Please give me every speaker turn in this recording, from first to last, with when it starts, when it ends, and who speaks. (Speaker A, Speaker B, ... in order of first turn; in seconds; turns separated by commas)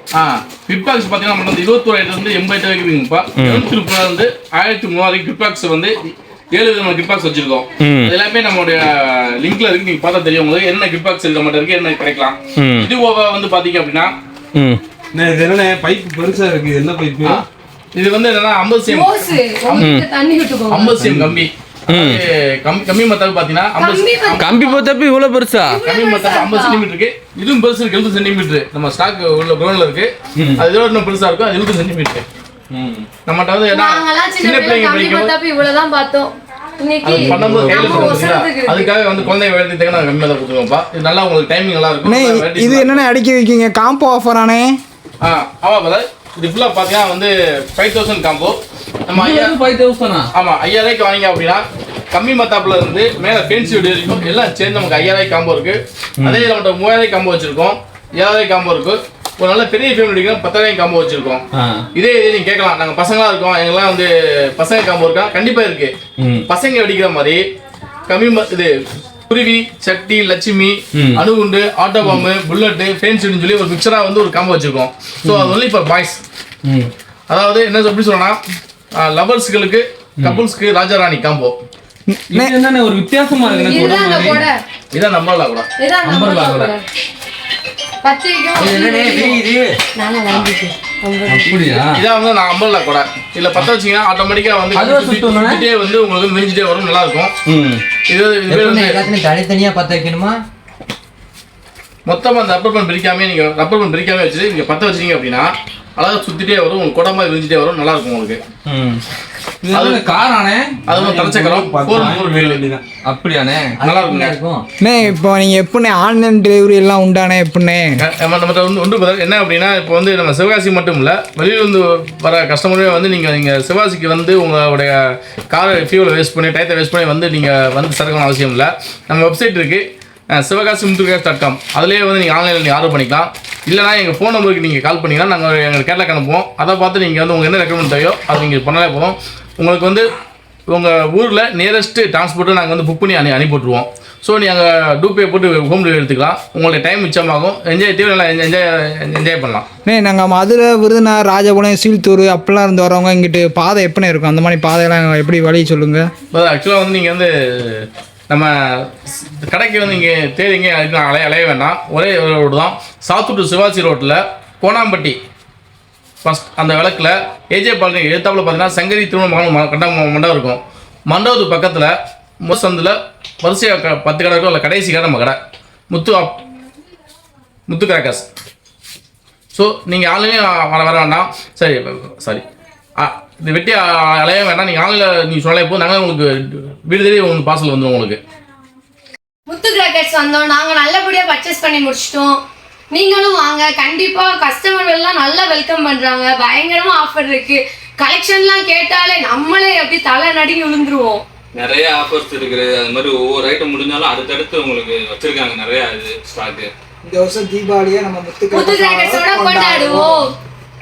Speaker A: 0.1-14.1, Speaker B: 3.4-3.7, Speaker B: 7.8-8.1, Speaker B: 12.6-12.9, Speaker B: 14.6-14.8, Speaker C: 15.1-17.4, Speaker A: 17.2-19.9, Speaker D: 18.9-21.0, Speaker B: 19.8-20.1, Speaker A: 20.7-24.5, Speaker C: 21.0-21.4, Speaker B: 21.9-22.2, Speaker D: 23.8-24.9, Speaker B: 24.4-25.8, Speaker D: 25.6-26.9, Speaker A: 25.9-32.2, Speaker B: 30.4-30.6, Speaker B: 32.7-33.1, Speaker A: 33.3-35.3, Speaker D: 33.7-39.0, Speaker A: 37.0-43.0, Speaker C: 37.2-38.0, Speaker E: 42.0-44.8, Speaker A: 45.2-49.5, Speaker B: 49.1-50.3, Speaker A: 50.3-61.4, Speaker B: 56.2-56.5, Speaker B: 61.6-61.8, Speaker A: 62.0-66.0, Speaker B: 66.2-66.5, Speaker A: 66.5-67.4, Speaker A: 68.1-68.7, Speaker A: 69.3-76.2, Speaker B: 71.0-71.2, Speaker B: 75.2-75.5, Speaker B: 76.7-76.9, Speaker A: 77.3-78.4, Speaker A: 79.0-81.6, Speaker E: 82.1-82.5, Speaker B: 82.3-84.5, Speaker D: 83.4-84.6, Speaker A: 84.9-85.7, Speaker D: 85.8-86.8, Speaker B: 86.0-86.7, Speaker D: 88.0-89.4, Speaker F: 88.6-89.8, Speaker D: 90.0-91.6, Speaker B: 91.3-92.0, Speaker A: 91.8-97.3, Speaker B: 94.8-95.6, Speaker B: 97.5-97.8, Speaker A: 98.1-99.1, Speaker F: 98.5-100.4, Speaker A: 102.1-108.4, Speaker B: 108.7-109.0, Speaker B: 109.6-110.8, Speaker A: 109.7-110.1, Speaker A: 110.9-112.7, Speaker C: 110.9-112.9, Speaker B: 113.0-113.8, Speaker F: 113.8-114.7, Speaker A: 113.8-114.4, Speaker E: 114.8-118.0, Speaker A: 118.0-140.1, Speaker A: 140.7-149.7, Speaker E: 149.9-156.1, Speaker A: 156.3-165.2, Speaker A: 166.2-175.4, Speaker A: 175.9-176.4, Speaker A: 177.7-178.3, Speaker A: 179.5-182.4, Speaker A: 183.0-188.2, Speaker D: 189.5-192.4, Speaker D: 192.9-201.2, Speaker B: 201.6-206.7, Speaker E: 207.0-210.2, Speaker D: 208.5-210.3